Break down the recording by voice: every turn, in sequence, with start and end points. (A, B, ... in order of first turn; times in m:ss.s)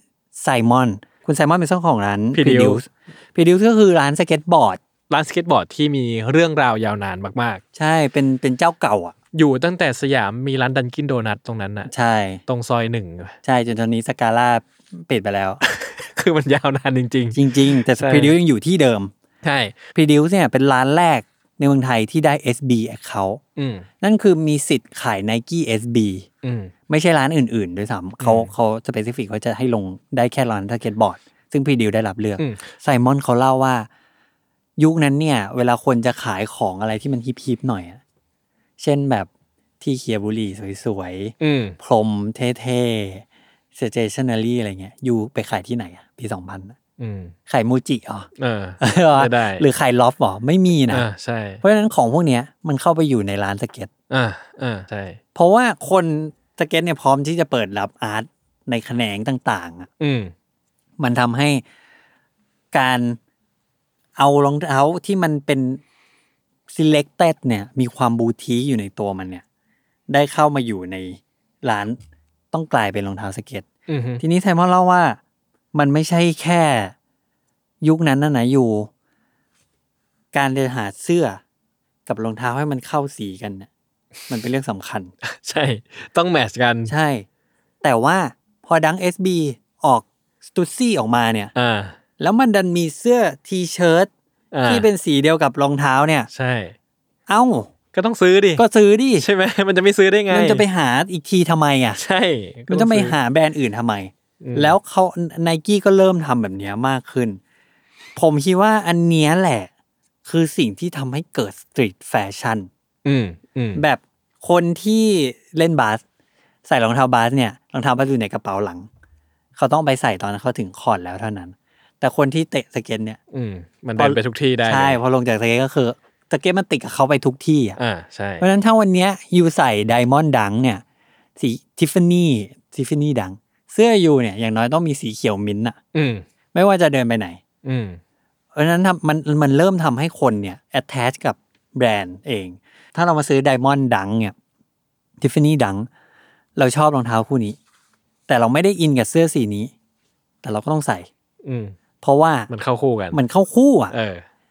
0:00.4-0:04.8 A
0:02.3-0:02.8 B
0:05.1-0:07.6 B
0:07.8-0:09.1 A
0:09.3-0:11.9 B
0:11.9-0:12.4 A
0:12.5-0:13.4 B
0:13.4-0:15.6 A
0:15.6-0:18.4 B
0:17.3-0:19.1 A
0:19.4-0:19.8 B
0:19.9-0:23.4 A
0:23.6-0:23.9 B
0:24.0-0:26.2 A
0:26.4-0:26.7 B
0:26.9-0:33.9 A
0:28.2-0:28.5 B
0:32.4-0:32.6 B
0:34.8-0:38.0 A
0:38.8-0:39.3 A
0:39.8-0:46.8 A
0:41.4-0:41.8 B
0:47.0-0:47.3 B
0:47.5-0:48.3 A
0:48.4-0:49.6 B
0:48.8-0:51.1 A
0:50.9-0:51.6 B
0:51.6-0:53.9 A
0:54.1-0:55.2 B
0:55.4-0:59.9 A
1:00.0-1:00.3 B
1:01.0-1:01.6 A
1:02.7-1:03.2 A
1:04.2-1:05.8 A
1:06.7-1:09.4 A
1:10.1-1:12.0 A
1:12.5-1:13.6 A
1:13.9-1:14.2 B
1:14.2-1:15.2 A
1:15.7-1:17.0 A
1:17.8-1:18.9 A
1:20.3-1:21.4 A
1:22.1-1:23.7 A
1:24.3-1:25.1 A
1:25.2-1:26.9 B
1:26.9-1:27.2 A
1:27.8-1:31.5 A
1:31.6-1:32.0 B
1:32.2-1:34.1 A
1:34.5-1:34.9 B
1:34.7-1:36.3 A
1:36.3-1:36.8 B
1:37.3-1:37.7 A
1:37.9-1:38.6 B
1:38.6-1:39.2 A
1:39.2-1:40.6 B
1:40.3-1:42.0 A
1:42.0-1:43.2 B
1:42.7-1:47.4 A
1:44.4-1:44.8 B
1:48.2-1:49.7 A
1:50.2-1:52.7 A
1:53.0-1:53.8 B
1:53.8-1:56.0 A
1:56.6-1:58.9 A
1:59.6-2:03.2 A
2:03.3-2:05.0 B
2:04.0-2:07.8 A
2:07.8-2:08.5 B
2:08.4-2:10.8 A
2:11.4-2:15.8 A
2:15.9-2:16.2 B
2:16.5-2:17.4 A
2:17.6-2:18.0 B
2:18.5-2:24.4 A
2:25.2-2:25.9 A
2:26.6-2:27.6 A
2:28.3-2:29.7 A
2:30.4-2:31.1 A
2:31.4-2:31.8 B
2:32.0-2:32.5 A
2:32.5-2:33.2 B
2:33.1-2:33.9 A
2:33.9-2:34.2 B